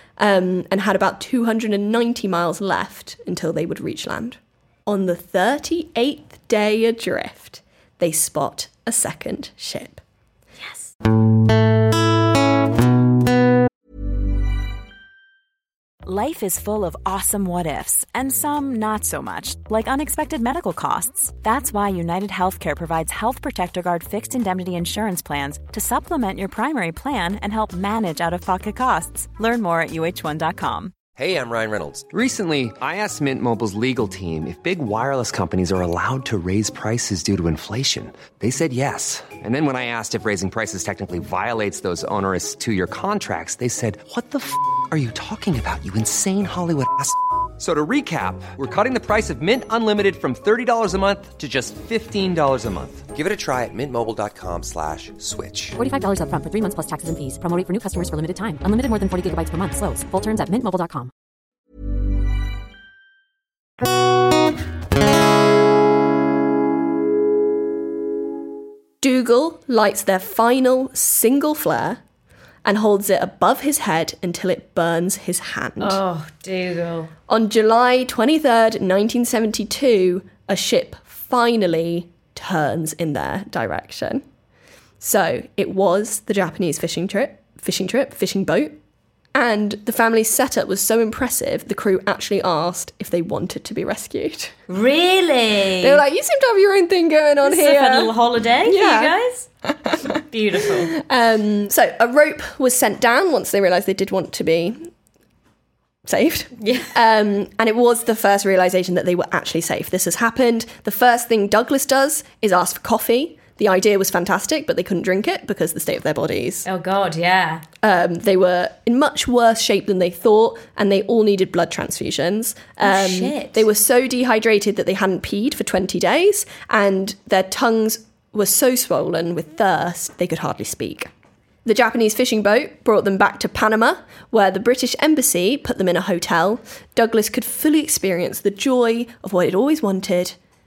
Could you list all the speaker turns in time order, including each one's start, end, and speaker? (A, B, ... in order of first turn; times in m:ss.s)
0:00.2-0:10.0 A
0:16.0-0:30.9 B
0:31.2-0:55.8 C
0:55.8-1:01.1 D
1:09.0-1:12.0 A
1:12.6-1:16.0 A
1:15.8-1:17.1 E
1:17.3-1:24.2 A
1:25.0-1:28.8 A
1:29.3-1:34.6 A
1:34.7-1:36.0 E
1:35.8-1:39.2 A
1:37.4-1:39.5 E
1:39.7-1:44.9 A
1:40.3-1:40.9 E
1:46.0-1:56.7 A
1:46.6-1:46.9 E
1:56.7-1:57.6 E
1:57.8-2:11.1 A
2:02.8-2:03.6 E
2:11.6-2:20.4 A